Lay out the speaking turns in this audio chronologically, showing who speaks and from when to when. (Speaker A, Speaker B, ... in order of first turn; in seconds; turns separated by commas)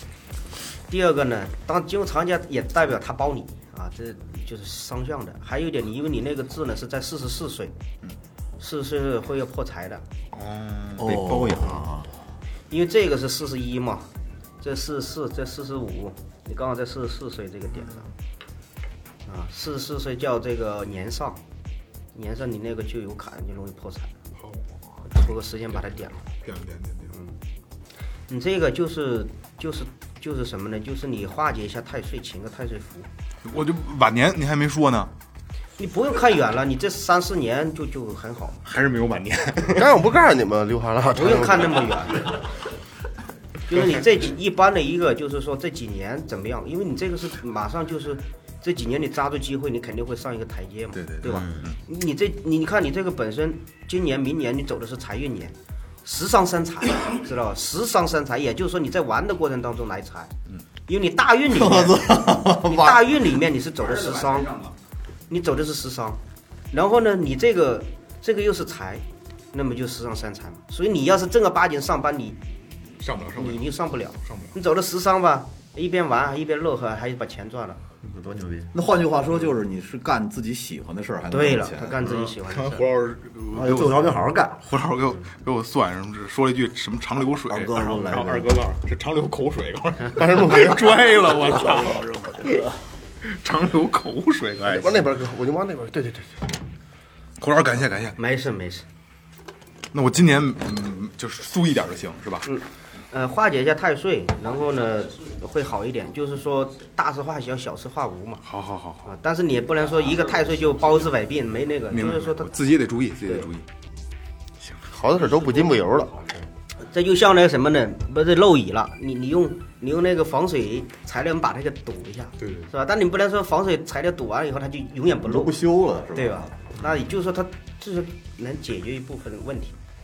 Speaker A: 0.9-7.7, Speaker A: 8.6-10.0, Speaker B: 10.3-11.2, Speaker C: 11.0-12.0, Speaker D: 11.1-12.1, Speaker A: 12.7-18.1, Speaker A: 19.3-21.4, Speaker A: 22.1-24.1, Speaker A: 25.1-26.2, Speaker B: 26.3-27.1, Speaker A: 28.3-33.1, Speaker B: 33.5-35.1, Speaker A: 35.8-38.6, Speaker B: 38.7-39.9, Speaker E: 39.7-42.0, Speaker A: 41.1-42.4, Speaker A: 43.7-60.3, Speaker B: 51.0-51.8, Speaker D: 51.3-51.6, Speaker A: 60.9-64.7, Speaker C: 61.5-63.0, Speaker A: 65.3-72.4, Speaker B: 73.0-73.7, Speaker A: 73.4-77.8, Speaker B: 74.2-74.5, Speaker D: 78.0-78.7, Speaker C: 78.7-82.0, Speaker A: 81.3-82.9, Speaker B: 82.0-92.2, Speaker D: 83.6-84.6, Speaker C: 87.5-88.6, Speaker E: 90.2-91.2, Speaker C: 91.7-92.6, Speaker B: 93.2-95.1, Speaker E: 94.7-96.4, Speaker B: 97.4-98.2, Speaker A: 98.2-98.8, Speaker B: 99.9-102.5, Speaker A: 102.4-108.4, Speaker B: 108.5-109.0, Speaker A: 109.0-112.5, Speaker B: 111.9-113.7, Speaker B: 114.6-115.6, Speaker E: 114.9-116.2, Speaker B: 116.2-116.4, Speaker A: 116.8-125.6, Speaker B: 122.4-122.7, Speaker C: 125.3-126.5, Speaker A: 126.1-129.8, Speaker B: 126.8-127.1